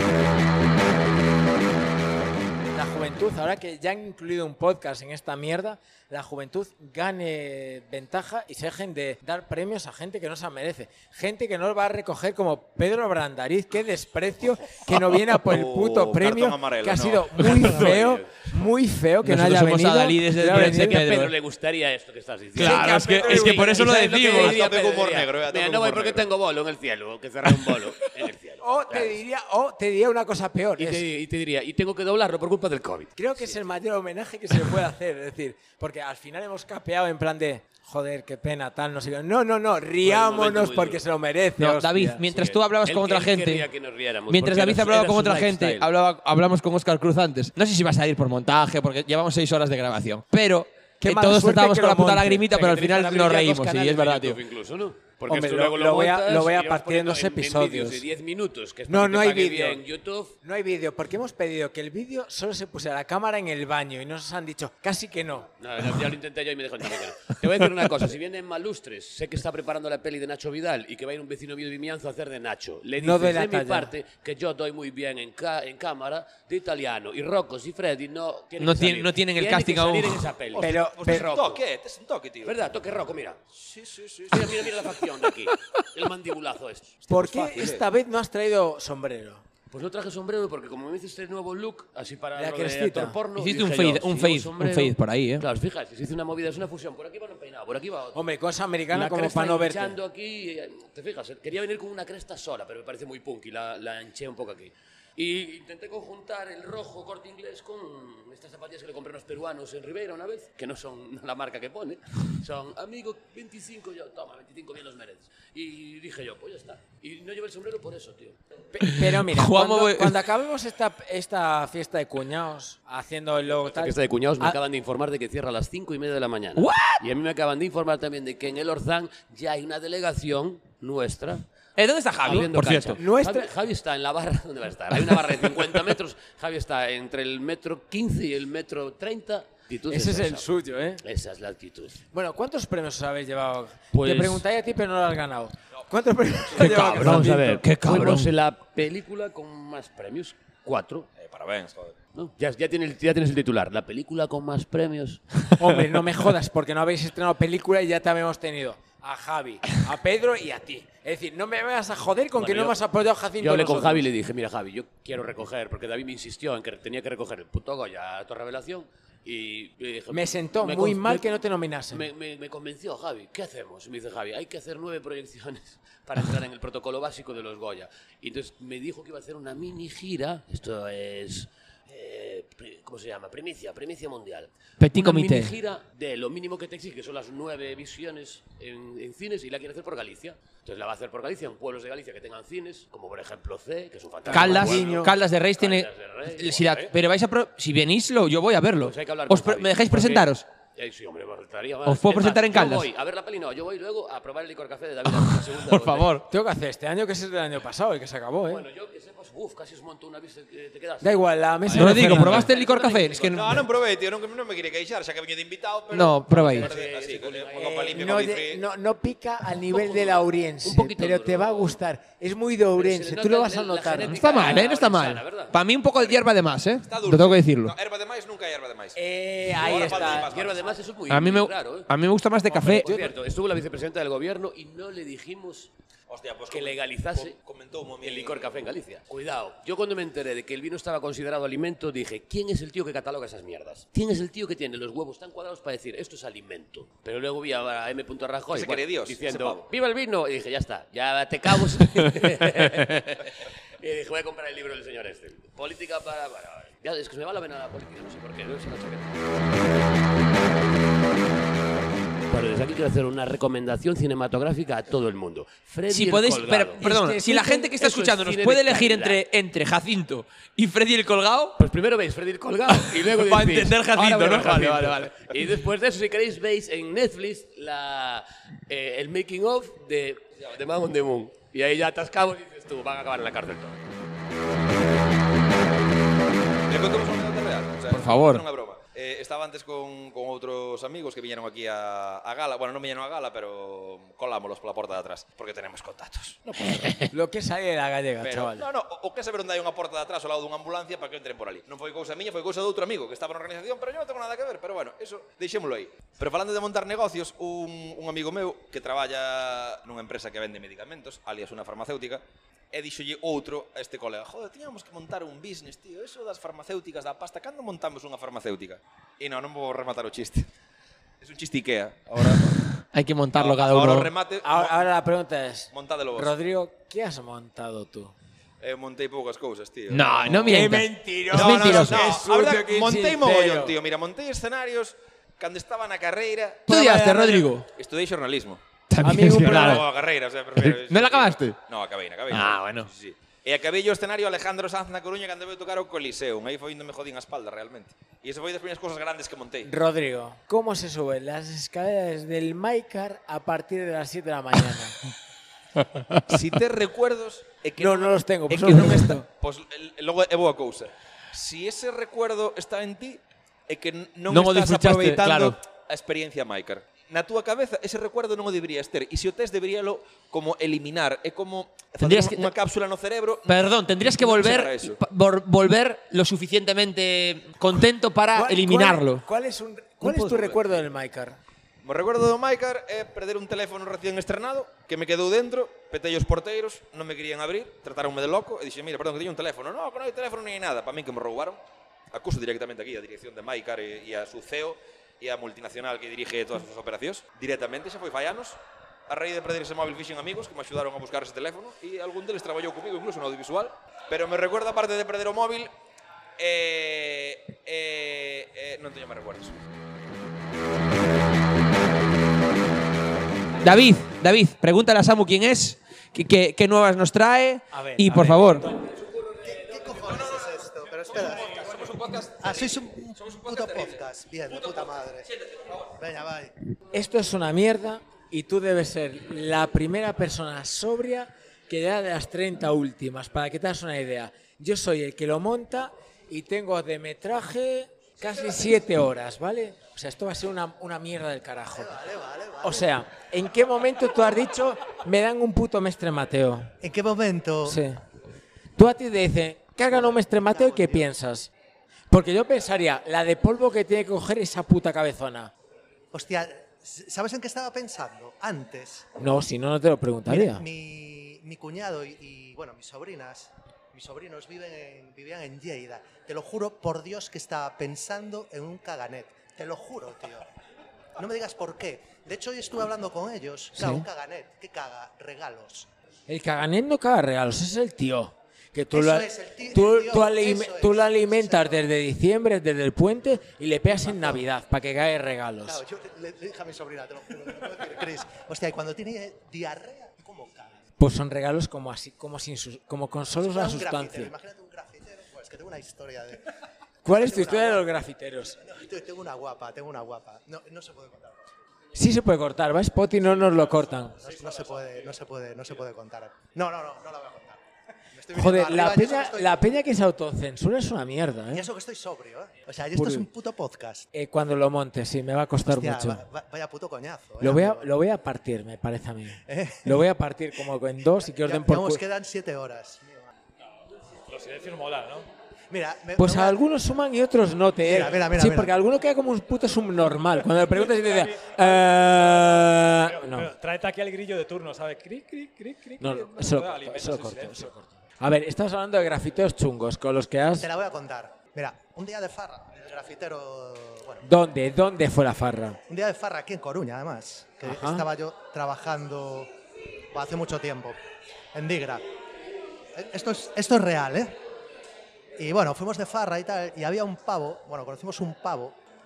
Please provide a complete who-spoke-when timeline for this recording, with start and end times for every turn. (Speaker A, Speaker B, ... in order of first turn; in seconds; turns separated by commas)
Speaker A: 2.7-21.3, Speaker B: 15.4-17.3, Speaker C: 17.4-17.9, Speaker D: 17.7-18.3, Speaker C: 19.2-21.3, Speaker D: 20.7-29.2, Speaker C: 22.6-24.7, Speaker A: 22.6-24.4, Speaker B: 24.4-26.3, Speaker A: 28.6-31.0, Speaker D: 30.8-33.6, Speaker A: 33.2-42.2, Speaker D: 40.0-41.0, Speaker C: 41.6-43.7, Speaker D: 42.2-45.9, Speaker C: 44.3-54.4, Speaker A: 51.0-52.5, Speaker D: 52.5-60.4, Speaker A: 55.3-58.0, Speaker A: 58.9-59.8, Speaker A: 60.4-65.5, Speaker D: 65.6-81.6, Speaker A: 73.0-73.9, Speaker C: 78.6-80.3, Speaker B: 80.5-82.6, Speaker A: 80.6-81.3, Speaker D: 82.5-83.4, Speaker B: 83.5-84.8, Speaker D: 84.3-87.7, Speaker A: 87.1-89.4, Speaker B: 87.2-87.8, Speaker D: 89.7-98.2, Speaker A: 92.4-93.2, Speaker C: 93.4-95.5, Speaker A: 98.1-100.0, Speaker D: 98.9-118.4, Speaker A: 118.7-124.5, Speaker C: 119.0-120.2, Speaker D: 123.6-131.4, Speaker C: 126.6-127.0, Speaker C: 131.8-133.0, Speaker D: 132.2-140.5, Speaker A: 132.9-133.5, Speaker A: 139.9-141.0, Speaker D: 141.0-142.0, Speaker A: 142.1-148.1, Speaker D: 143.9-144.4, Speaker C: 146.5-148.3, Speaker D: 146.6-151.1, Speaker B: 151.2-152.0, Speaker D: 152.2-155.2, Speaker A: 155.6-164.1, Speaker D: 162.4-162.8, Speaker D: 163.4-196.9, Speaker A: 170.1-172.1, Speaker C: 184.8-185.5, Speaker A: 184.9-185.4, Speaker A: 194.3-195.1, Speaker C: 194.3-200.4, Speaker D: 198.8-206.2, Speaker C: 201.8-202.9, Speaker C: 205.1-206.2, Speaker A: 206.3-208.6, Speaker D: 208.5-211.3, Speaker A: 211.0-212.5, Speaker C: 211.7-213.7, Speaker D: 212.0-213.5, Speaker B: 213.2-218.7, Speaker C: 215.9-216.7, Speaker D: 216.3-217.8, Speaker A: 217.6-224.7, Speaker D: 219.7-221.8, Speaker D: 222.8-225.6, Speaker C: 224.1-227.8, Speaker B: 226.0-226.2, Speaker B: 226.8-229.0, Speaker A: 228.9-230.3, Speaker B: 229.6-230.8, Speaker D: 230.3-231.9, Speaker C: 231.1-232.9, Speaker D: 232.5-235.7, Speaker A: 232.8-233.1, Speaker B: 236.1-238.6, Speaker D: 236.5-237.4, Speaker D: 238.0-253.2, Speaker B: 248.5-249.7, Speaker D: 253.8-259.2, Speaker D: 262.3-266.8, Speaker C: 265.9-271.6, Speaker A: 266.8-267.7, Speaker D: 267.8-269.2, Speaker D: 271.6-283.8, Speaker C: 272.7-275.3, Speaker B: 286.7-296.5, Speaker C: 287.9-288.4, Speaker A: 287.9-288.4, Speaker A: 297.1-298.7, Speaker B: 298.2-320.5, Speaker B: 321.2-322.6, Speaker C: 322.8-324.1, Speaker B: 323.4-324.9, Speaker A: 324.4-328.1, Speaker B: 325.7-326.4, Speaker B: 328.6-330.5, Speaker C: 329.9-332.1, Speaker A: 330.4-333.8, Speaker B: 331.3-338.6, Speaker C: 336.7-337.7, Speaker A: 336.8-337.4, Speaker C: 338.9-339.9, Speaker A: 339.0-339.8, Speaker B: 339.2-349.7, Speaker C: 340.6-341.6, Speaker C: 342.3-342.9, Speaker A: 349.6-355.0, Speaker B: 356.3-373.6, Speaker A: 357.8-359.2, Speaker C: 358.7-359.2, Speaker C: 364.3-365.6, Speaker C: 372.0-372.6, Speaker C: 373.5-379.2, Speaker B: 374.1-375.0, Speaker A: 378.3-381.4, Speaker B: 380.3-380.6, Speaker B: 381.8-391.6, Speaker B: 392.1-405.7, Speaker B: 406.4-409.6, Speaker C: 413.6-418.7, Speaker A: 417.8-418.5, Speaker E: 419.4-425.3, Speaker B: 423.5-423.8, Speaker E: 426.0-426.5, Speaker A: 426.9-442.0, Speaker E: 441.8-442.9, Speaker A: 442.6-446.7, Speaker E: 446.8-447.8, Speaker A: 447.6-448.0, Speaker A: 448.8-451.5, Speaker E: 449.9-451.1, Speaker A: 452.1-455.5, Speaker E: 456.1-459.1, Speaker A: 459.2-460.6, Speaker E: 460.3-470.5, Speaker E: 471.2-475.9, Speaker A: 473.8-474.0, Speaker A: 476.3-485.8, Speaker E: 478.9-481.8, Speaker E: 484.0-484.4, Speaker E: 485.7-490.9, Speaker A: 491.0-494.3, Speaker E: 493.4-496.4, Speaker A: 497.0-498.6, Speaker E: 497.1-497.9, Speaker E: 498.6-501.6, Speaker A: 501.9-504.2, Speaker E: 504.2-507.6, Speaker E: 508.1-509.6, Speaker A: 508.4-511.7, Speaker E: 511.5-514.1, Speaker A: 513.0-513.3, Speaker A: 514.1-516.2, Speaker E: 515.7-517.9, Speaker A: 517.4-522.0, Speaker E: 519.5-520.0, Speaker E: 521.3-523.3, Speaker F: 524.4-525.2, Speaker E: 525.7-526.6, Speaker A: 526.2-533.5, Speaker E: 527.8-528.7, Speaker F: 533.4-534.9, Speaker A: 535.1-540.7, Speaker E: 540.6-544.3, Speaker A: 544.2-545.8, Speaker E: 545.9-549.5, Speaker A: 547.6-548.0, Speaker E: 550.1-551.0, Speaker E: 551.5-552.0, Speaker E: 553.0-554.4, Speaker E: 555.4-558.8